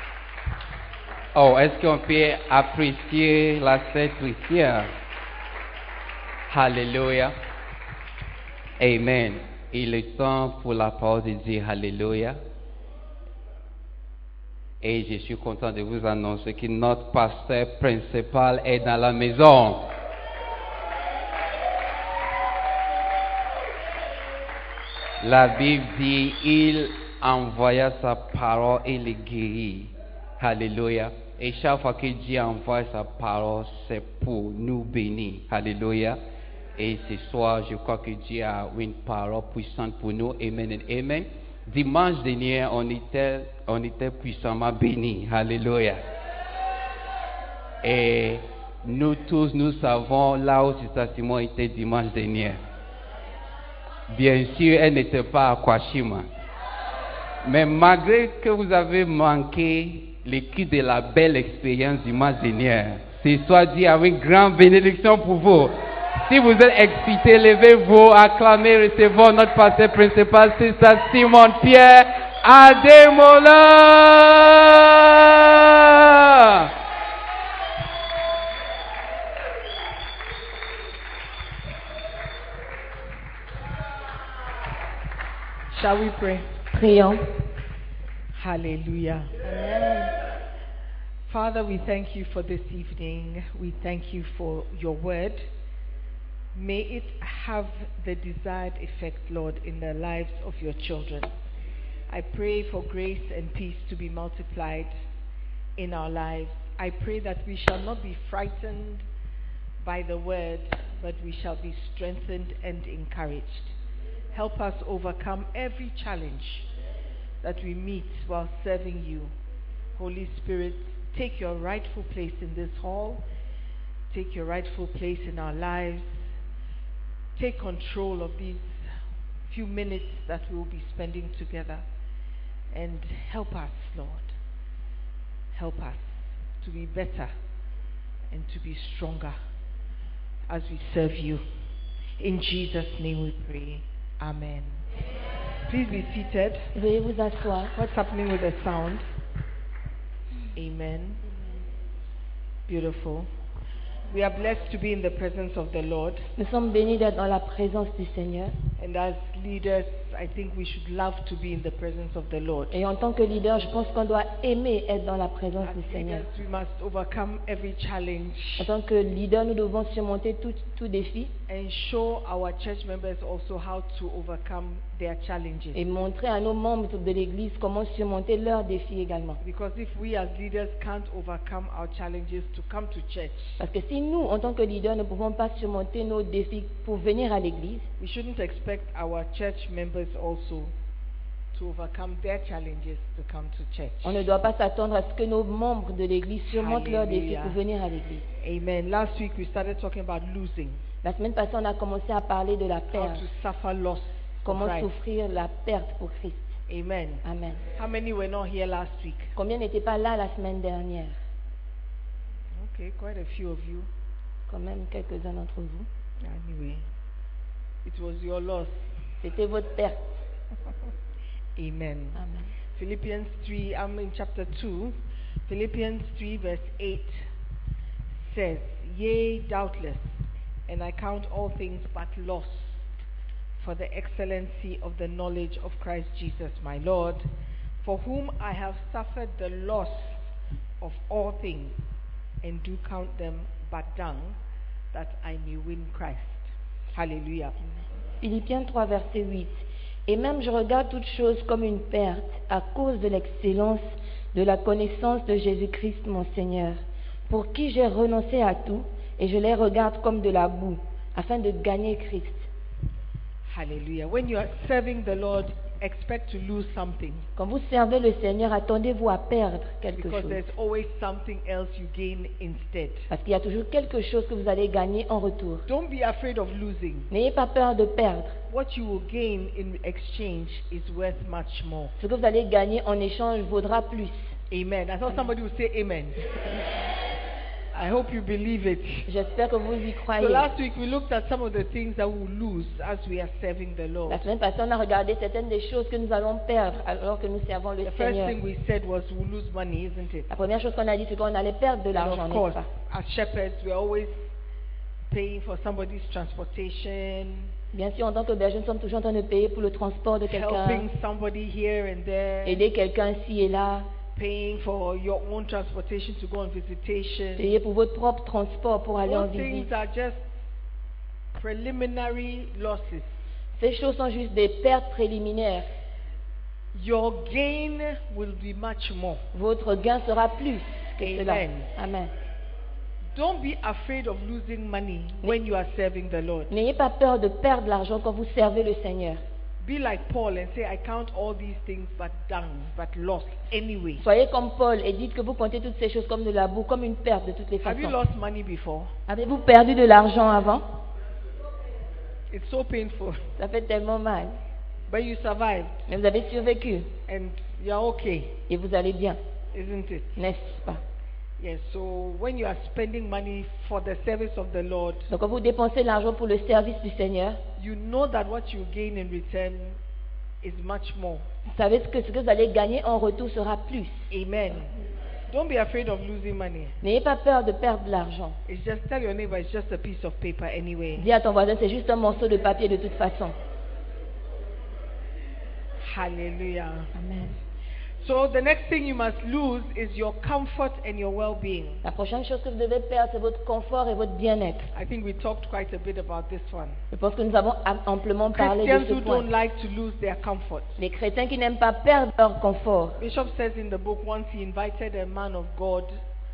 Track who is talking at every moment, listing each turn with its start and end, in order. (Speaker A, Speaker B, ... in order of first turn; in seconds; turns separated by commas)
Speaker A: 1.3-4.9, Speaker A: 6.5-7.3, Speaker A: 8.8-12.4, Speaker A: 14.8-19.9, Speaker A: 25.2-36.2, Speaker A: 36.8-46.0, Speaker A: 47.8-52.6, Speaker A: 54.1-56.3, Speaker A: 57.4-76.7, Speaker B: 85.7-86.5, Speaker C: 86.7-87.3, Speaker B: 88.3-89.5, Speaker C: 89.5-90.1, Speaker B: 91.3-95.4, Speaker B: 96.5-101.3, Speaker B: 102.1-104.9, Speaker B: 105.8-109.0, Speaker B: 109.8-113.7, Speaker B: 114.3-116.7, Speaker B: 117.4-119.3, Speaker B: 120.0-123.2, Speaker B: 124.1-126.3, Speaker B: 127.3-131.8, Speaker B: 132.7-134.3, Speaker B: 135.5-137.3, Speaker B: 138.3-139.4, Speaker B: 140.5-141.4, Speaker B: 142.2-144.8, Speaker B: 145.7-146.7, Speaker C: 146.7-147.8, Speaker B: 147.7-149.1, Speaker B: 150.5-151.2, Speaker B: 152.7-153.3, Speaker B: 154.1-156.3, Speaker C: 156.4-158.5, Speaker B: 158.8-162.7, Speaker C: 162.7-166.2, Speaker B: 165.6-168.7, Speaker C: 168.6-171.3, Speaker B: 171.5-175.8, Speaker C: 175.7-179.4, Speaker B: 179.4-183.6, Speaker C: 183.6-187.9, Speaker B: 188.0-190.7, Speaker B: 191.5-194.2, Speaker C: 194.0-198.2, Speaker B: 196.5-197.6, Speaker B: 198.4-200.8, Speaker C: 201.0-203.2, Speaker B: 202.9-204.9, Speaker C: 204.4-206.5, Speaker B: 206.7-209.3, Speaker C: 207.2-207.6, Speaker C: 209.3-211.2, Speaker B: 212.5-213.9, Speaker C: 214.5-215.9, Speaker B: 216.2-216.8, Speaker B: 217.8-218.7, Speaker C: 219.2-220.0, Speaker B: 221.6-222.2, Speaker C: 222.2-222.5, Speaker B: 222.7-227.2, Speaker B: 228.1-232.9, Speaker B: 233.6-237.3, Speaker B: 237.8-240.3, Speaker B: 240.8-241.8, Speaker B: 242.4-244.4, Speaker B: 244.9-247.6, Speaker C: 248.2-262.5, Speaker B: 263.4-267.3, Speaker C: 267.4-270.4, Speaker B: 269.9-273.1, Speaker C: 273.1-275.6, Speaker B: 275.7-277.1, Speaker C: 277.1-278.4, Speaker B: 278.5-281.9, Speaker C: 282.0-284.3, Speaker B: 284.5-286.3, Speaker B: 287.7-289.1, Speaker C: 289.1-290.5, Speaker B: 290.2-294.2, Speaker C: 294.1-298.4, Speaker B: 297.8-300.3, Speaker C: 300.3-302.7, Speaker B: 301.9-304.3, Speaker B: 305.1-307.5, Speaker C: 307.7-310.9, Speaker B: 310.2-312.6, Speaker C: 312.4-313.9, Speaker B: 314.1-317.5, Speaker C: 317.4-319.7, Speaker B: 319.0-320.3, Speaker B: 321.3-323.1, Speaker C: 323.6-325.7, Speaker B: 326.7-329.2, Speaker C: 329.3-332.1, Speaker B: 331.0-331.7, Speaker B: 333.1-336.5, Speaker C: 336.5-339.2, Speaker B: 339.6-344.0, Speaker C: 344.0-348.0, Speaker B: 347.6-348.9, Speaker C: 349.1-350.6, Speaker B: 352.3-353.2, Speaker C: 353.4-354.4, Speaker B: 354.9-355.8, Speaker C: 355.9-356.9, Speaker B: 357.1-358.4, Speaker C: 358.5-359.2, Speaker B: 359.5-360.2, Speaker C: 360.1-360.8, Speaker B: 361.4-365.1, Speaker C: 365.1-367.4, Speaker B: 367.6-369.8, Speaker B: 370.4-371.2, Speaker C: 371.5-374.1, Speaker B: 374.1-374.7, Speaker B: 375.3-376.8, Speaker C: 376.8-378.4, Speaker B: 378.5-381.1, Speaker C: 381.0-383.3, Speaker B: 385.8-386.9, Speaker C: 386.9-387.4, Speaker B: 388.0-391.8, Speaker C: 391.8-394.7, Speaker B: 394.7-396.8, Speaker C: 396.9-399.3, Speaker B: 398.3-400.8, Speaker C: 400.8-403.0, Speaker B: 403.0-406.0